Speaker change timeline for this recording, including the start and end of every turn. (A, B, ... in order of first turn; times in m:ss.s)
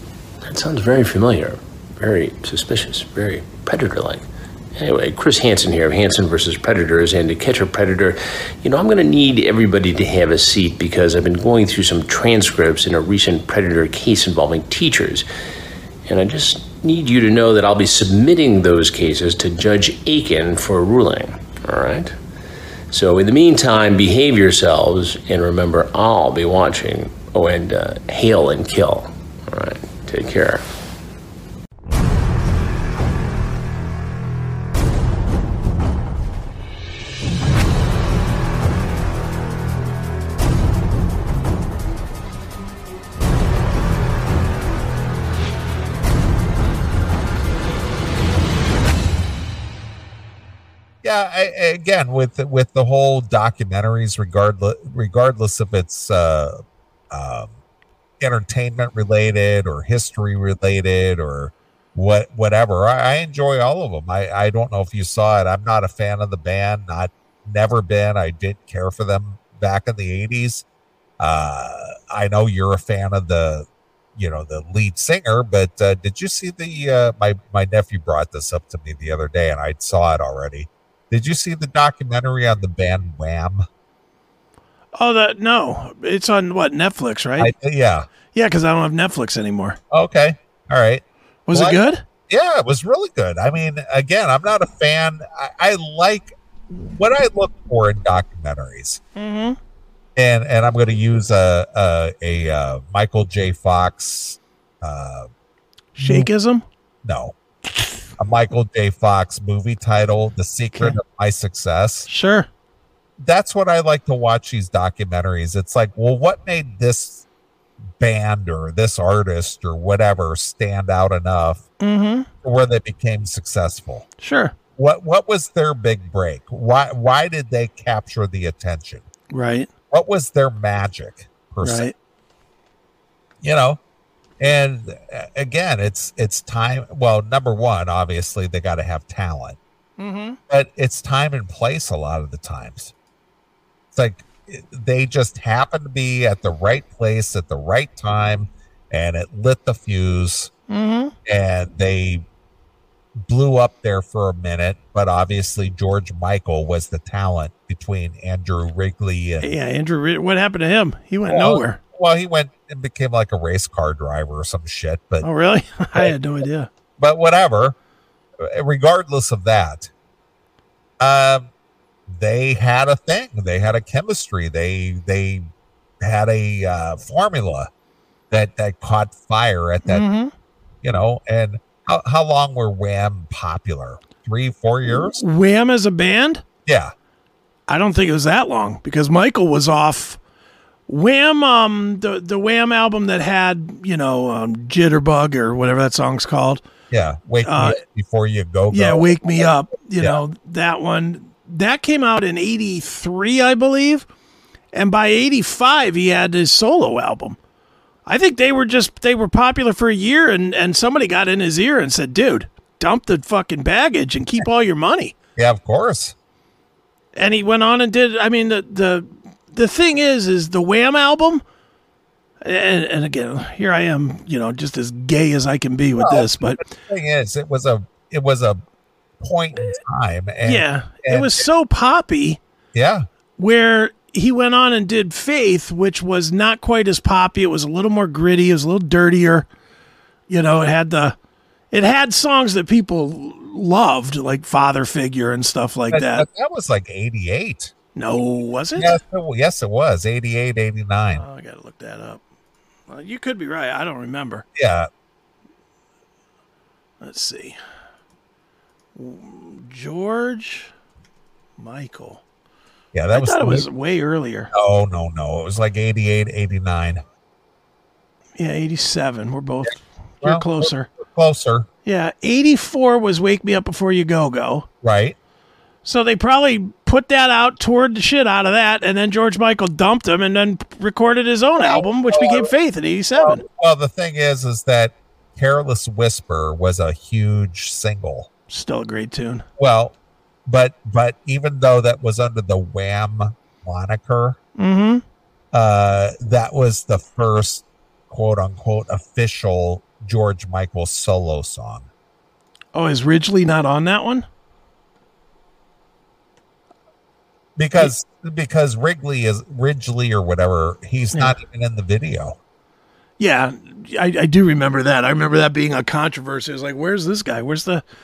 0:00.4-0:15.3 A
0:16.1-0:22.2 A
0:22.9-0:30.6 A
0:51.0-0:57.5 B
0:58.2-1:10.6 B
1:11.2-1:23.6 B
1:25.0-1:27.5 C
1:27.4-1:28.1 B
1:28.3-1:29.8 C
1:29.9-1:39.0 B
1:31.5-1:32.0 C
1:39.2-1:39.6 C
1:40.2-1:45.3 B
1:46.0-1:46.3 B
1:46.0-1:46.6 C
1:47.0-1:47.4 B
1:48.2-1:52.1 B
1:50.7-1:51.0 C
1:52.1-1:52.5 C
1:53.2-1:57.2 B
1:58.0-2:01.6 B
2:01.8-2:02.3 C
2:02.4-2:04.1 B
2:04.2-2:04.6 C
2:04.8-2:09.1 B
2:09.3-2:09.7 C
2:09.9-2:11.9 B
2:11.6-2:11.9 C
2:13.4-2:13.8 B
2:14.4-2:19.6 B
2:20.0-2:20.4 C
2:20.5-2:22.9 B
2:23.9-2:30.5 B
2:30.7-2:31.1 C
2:31.3-2:32.2 B
2:33.2-2:39.6 B
2:39.4-2:41.8 C
2:41.3-2:45.3 B
2:45.2-2:46.7 C
2:47.0-2:47.8 B
2:48.4-2:49.9 B
2:51.0-2:51.5 B
2:52.1-2:55.5 B
2:56.0-2:57.7 B
2:58.3-3:00.1 B
2:59.8-3:00.3 C
3:00.8-3:05.2 B
3:04.8-3:06.4 C
3:06.7-3:06.9 B
3:07.7-3:10.2 C
3:10.9-3:16.6 C
3:16.9-3:20.2 B
3:17.4-3:17.8 C
3:18.7-3:24.1 C
3:24.7-3:27.4 C
3:28.1-3:35.1 C
3:35.4-3:36.1 B
3:37.2-3:41.4 C
3:42.4-3:46.6 C
3:46.0-3:48.6 B
3:49.2-3:51.4 B
3:50.4-3:52.4 C
3:52.7-3:53.0 B
3:53.4-3:59.5 C
4:00.3-4:01.2 C
4:01.7-4:06.3 C
4:05.9-4:07.7 B
4:08.0-4:09.0 C
4:08.8-4:11.2 B
4:11.2-4:12.2 C
4:12.9-4:14.4 C
4:14.6-4:14.9 B
4:17.0-4:17.6 C
4:19.0-4:20.7 C
4:21.6-4:22.2 C
4:22.9-4:23.7 B
4:23.1-4:24.5 C
4:24.5-4:27.0 B
4:28.4-4:30.9 C
4:30.2-4:31.7 B
4:31.8-4:34.7 C
4:34.8-4:35.2 B
4:35.8-4:43.4 C
4:41.6-4:42.5 B
4:43.2-4:48.3 B
4:48.5-4:49.4 C
4:49.6-4:50.0 B
4:50.5-4:54.4 B
4:54.6-4:55.0 C
4:55.5-5:01.9 B
5:02.7-5:04.3 C
5:07.6-5:12.4 B
5:13.2-5:17.8 C